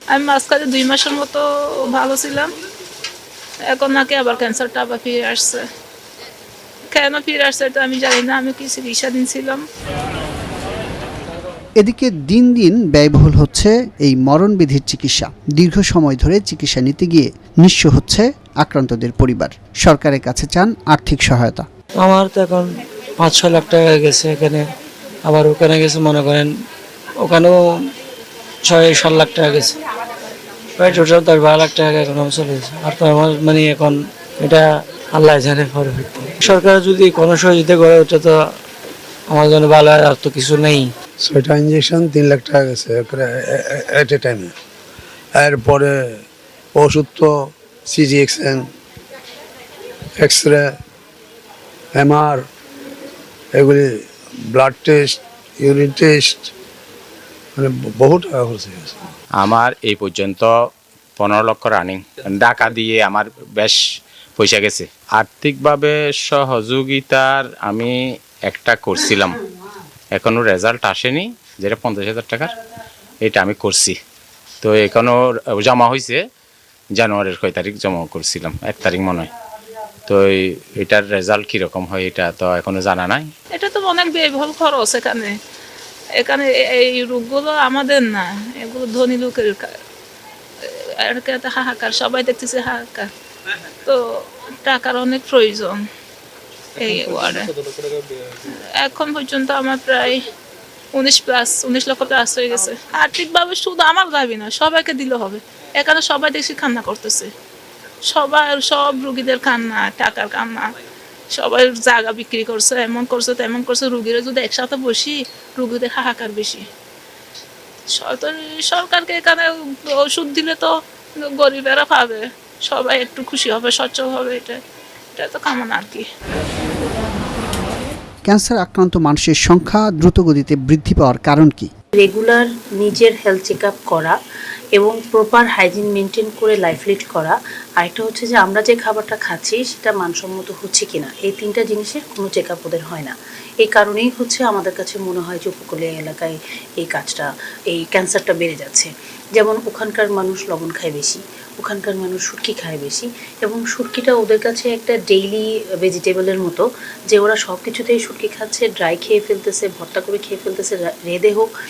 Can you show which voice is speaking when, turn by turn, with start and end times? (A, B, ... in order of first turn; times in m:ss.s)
0:00.1-0:01.4 A
0:01.9-0:02.5 A
0:03.7-0:05.6 A
0:06.9-0:09.6 A
0:11.8-0:21.7 B
0:22.0-0:24.6 C
0:25.3-0:26.5 C
0:27.2-0:27.6 C
0:28.6-0:29.7 C
0:30.8-0:38.4 C
0:39.3-0:40.9 C
0:41.2-0:44.5 D
0:45.3-0:46.2 D
0:46.7-0:48.7 D
0:50.1-0:50.8 D
0:51.9-0:52.5 D
0:53.5-0:56.5 D
0:57.6-0:59.0 D
0:59.4-1:00.5 E
1:01.2-1:03.8 E
1:04.4-1:07.9 E
1:08.5-1:09.4 E
1:10.1-1:12.5 E
1:13.2-1:13.9 E
1:14.6-1:16.2 E
1:16.9-1:19.3 E
1:20.1-1:23.3 E
1:23.5-1:25.3 A
1:26.2-1:29.7 A
1:30.7-1:33.1 A
1:34.6-1:35.8 A
1:36.8-1:37.5 A
1:38.8-1:40.2 A
1:40.9-1:47.3 A
1:48.1-1:50.7 A
1:51.3-1:56.7 A
1:57.9-2:00.7 A
2:01.3-2:04.6 A
2:05.2-2:06.0 A
2:08.3-2:11.7 B
2:12.0-2:14.1 F
2:14.8-2:41.5 F